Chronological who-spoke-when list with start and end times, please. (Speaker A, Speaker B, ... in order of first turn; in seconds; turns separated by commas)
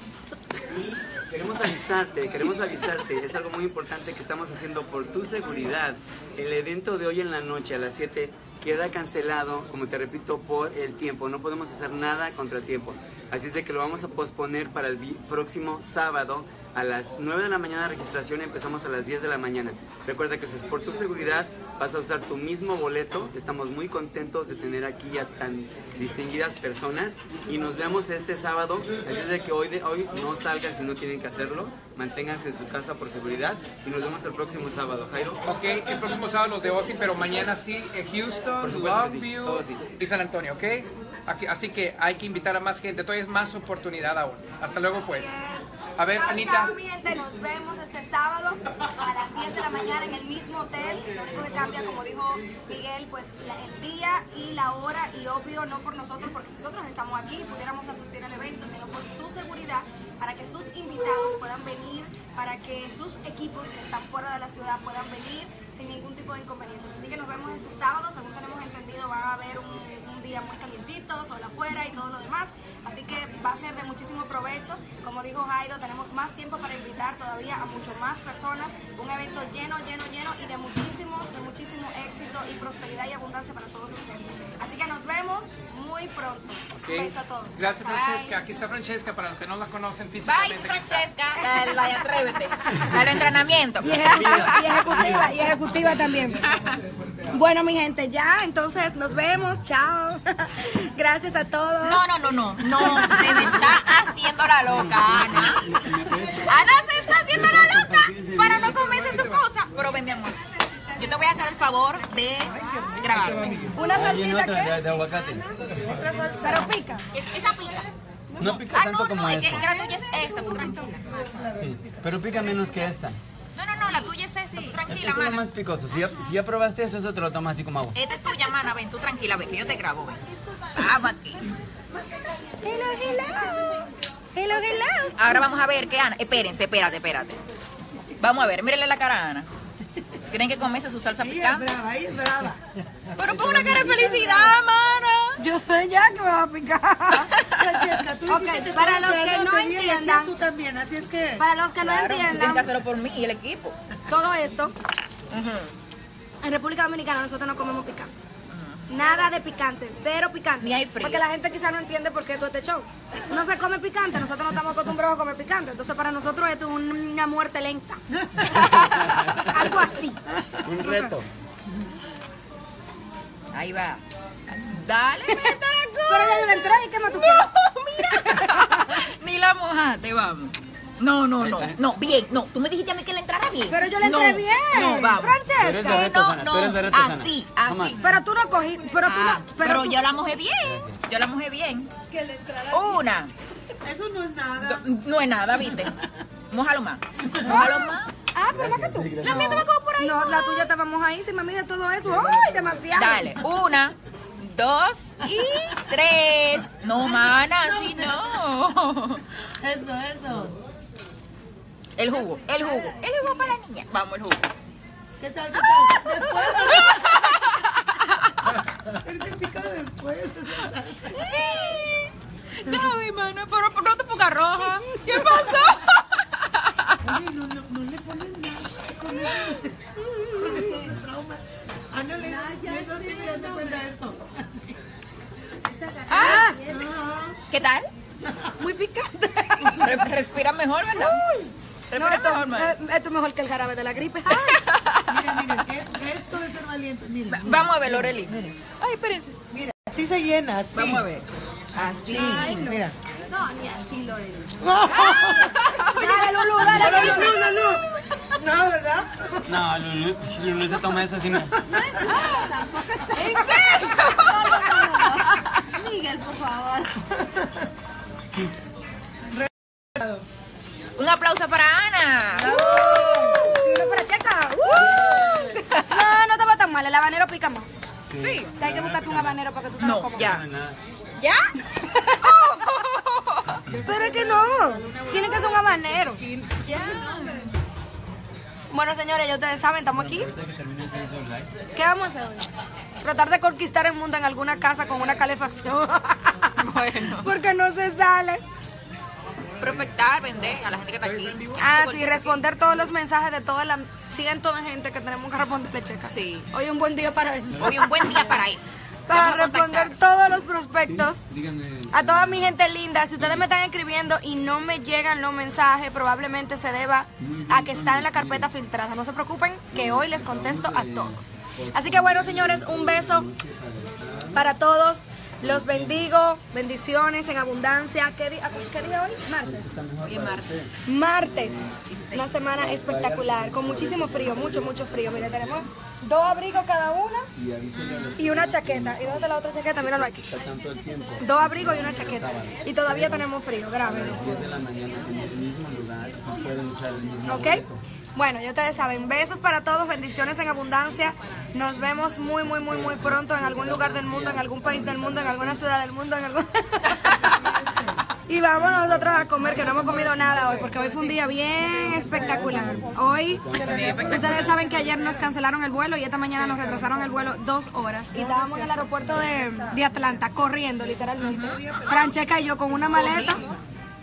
Speaker A: 0.6-35.4, Speaker B: 35.5-45.4, Speaker A: 38.6-39.8, Speaker C: 45.0-88.3, Speaker B: 46.0-46.7, Speaker B: 86.8-91.1, Speaker D: 87.9-88.1, Speaker D: 90.2-95.2, Speaker C: 91.5-91.8, Speaker C: 93.8-96.4, Speaker A: 94.0-94.6, Speaker D: 96.4-96.8, Speaker C: 97.2-103.8, Speaker D: 101.8-105.7, Speaker A: 104.7-109.0, Speaker D: 106.5-110.4, Speaker B: 108.8-109.2, Speaker D: 111.0-113.7, Speaker E: 112.5-113.5, Speaker B: 113.2-113.7, Speaker C: 113.7-114.9, Speaker A: 113.9-115.5, Speaker E: 115.7-116.7, Speaker C: 116.4-117.0, Speaker D: 117.1-117.9, Speaker A: 118.4-119.6, Speaker D: 118.4-121.0, Speaker E: 121.2-121.7, Speaker A: 121.6-123.2, Speaker D: 123.5-125.5, Speaker A: 124.9-128.0, Speaker D: 127.9-130.2, Speaker D: 130.7-131.4, Speaker C: 132.6-135.4, Speaker D: 135.2-137.4, Speaker D: 138.2-139.5, Speaker D: 140.3-141.7, Speaker E: 141.2-142.7, Speaker D: 143.2-145.4, Speaker E: 143.3-144.3, Speaker C: 143.6-144.5, Speaker C: 145.4-147.4, Speaker D: 147.1-147.6, Speaker E: 147.5-151.4, Speaker C: 148.3-150.3, Speaker C: 151.4-152.7, Speaker D: 151.8-153.8, Speaker C: 154.1-154.7, Speaker D: 155.3-155.7, Speaker C: 156.4-158.1, Speaker D: 158.5-159.1, Speaker C: 158.9-170.2, Speaker D: 160.6-161.2, Speaker A: 168.5-169.7, Speaker A: 170.6-171.3, Speaker C: 170.8-171.1, Speaker D: 173.5-188.1, Speaker C: 176.1-177.5, Speaker C: 178.1-178.9, Speaker A: 181.4-181.8, Speaker C: 183.7-186.1, Speaker A: 185.6-188.0, Speaker C: 188.0-190.0, Speaker D: 189.0-191.9, Speaker A: 190.6-191.0, Speaker E: 192.1-193.0, Speaker D: 192.7-193.3, Speaker E: 193.8-194.9, Speaker D: 194.6-196.0, Speaker D: 196.5-198.1, Speaker C: 197.4-203.3, Speaker A: 198.5-199.7, Speaker D: 199.2-200.7, Speaker A: 202.1-202.7, Speaker D: 202.9-209.2, Speaker E: 207.0-208.1, Speaker E: 209.6-210.6, Speaker D: 212.0-214.5, Speaker E: 215.2-217.2, Speaker D: 215.6-218.3, Speaker E: 218.9-221.2, Speaker D: 221.1-226.9, Speaker C: 225.0-225.4, Speaker E: 227.0-234.8, Speaker C: 230.4-230.9, Speaker C: 236.0-236.7, Speaker D: 236.1-236.5, Speaker E: 236.6-237.4, Speaker D: 237.5-237.9, Speaker E: 238.2-238.5, Speaker C: 238.6-240.1, Speaker D: 239.6-241.2, Speaker C: 240.9-244.6, Speaker D: 241.9-242.7, Speaker D: 244.3-245.6, Speaker E: 245.1-248.5, Speaker D: 247.3-249.3, Speaker E: 249.5-251.1, Speaker D: 250.7-252.7, Speaker E: 251.8-252.9, Speaker C: 252.1-257.7, Speaker E: 254.6-256.0, Speaker D: 255.5-256.0, Speaker A: 256.6-257.2, Speaker E: 256.6-259.4, Speaker A: 259.4-261.5, Speaker E: 261.6-267.7, Speaker D: 262.0-262.5, Speaker D: 263.1-265.5, Speaker C: 263.2-264.6, Speaker E: 269.3-270.2, Speaker D: 270.9-272.6, Speaker E: 272.3-273.6, Speaker C: 272.5-277.7, Speaker A: 274.7-275.6, Speaker D: 274.7-276.0, Speaker A: 278.1-279.4, Speaker D: 278.2-278.5, Speaker C: 278.6-280.3, Speaker D: 279.8-280.4, Speaker A: 280.1-280.8, Speaker D: 281.2-281.5, Speaker C: 281.7-282.6, Speaker D: 282.2-283.6, Speaker E: 283.6-287.5, Speaker C: 283.9-287.0, Speaker D: 286.6-287.5, Speaker C: 288.7-290.3, Speaker A: 289.9-291.5, Speaker C: 291.7-292.5, Speaker C: 293.0-296.5, Speaker D: 296.6-297.3, Speaker C: 297.2-298.4, Speaker D: 299.6-302.4, Speaker B: 301.0-301.6, Speaker C: 301.6-308.4, Speaker D: 306.1-306.5, Speaker A: 307.5-307.8, Speaker D: 307.6-309.9, Speaker C: 309.1-311.2, Speaker A: 310.9-312.6, Speaker C: 311.9-323.2, Speaker A: 313.1-313.5, Speaker A: 317.2-318.5, Speaker A: 319.7-324.5, Speaker C: 324.3-329.7, Speaker A: 325.4-326.1, Speaker A: 329.4-331.8, Speaker D: 330.0-330.5, Speaker C: 330.9-337.3, Speaker D: 331.9-332.2, Speaker A: 332.4-335.6, Speaker A: 337.3-343.3, Speaker D: 337.7-338.1, Speaker C: 338.1-340.2, Speaker C: 341.2-344.3, Speaker A: 343.8-347.8, Speaker C: 347.2-347.6, Speaker C: 348.1-357.2, Speaker A: 352.6-355.6, Speaker E: 357.1-357.9, Speaker C: 358.3-363.4, Speaker A: 358.5-360.2, Speaker E: 359.4-362.9, Speaker A: 362.1-364.4, Speaker E: 363.5-365.3, Speaker D: 363.6-364.5, Speaker C: 364.0-373.4, Speaker E: 366.4-367.1, Speaker E: 368.1-369.8, Speaker E: 371.2-372.1, Speaker D: 371.2-371.6, Speaker D: 372.9-373.4, Speaker E: 372.9-373.6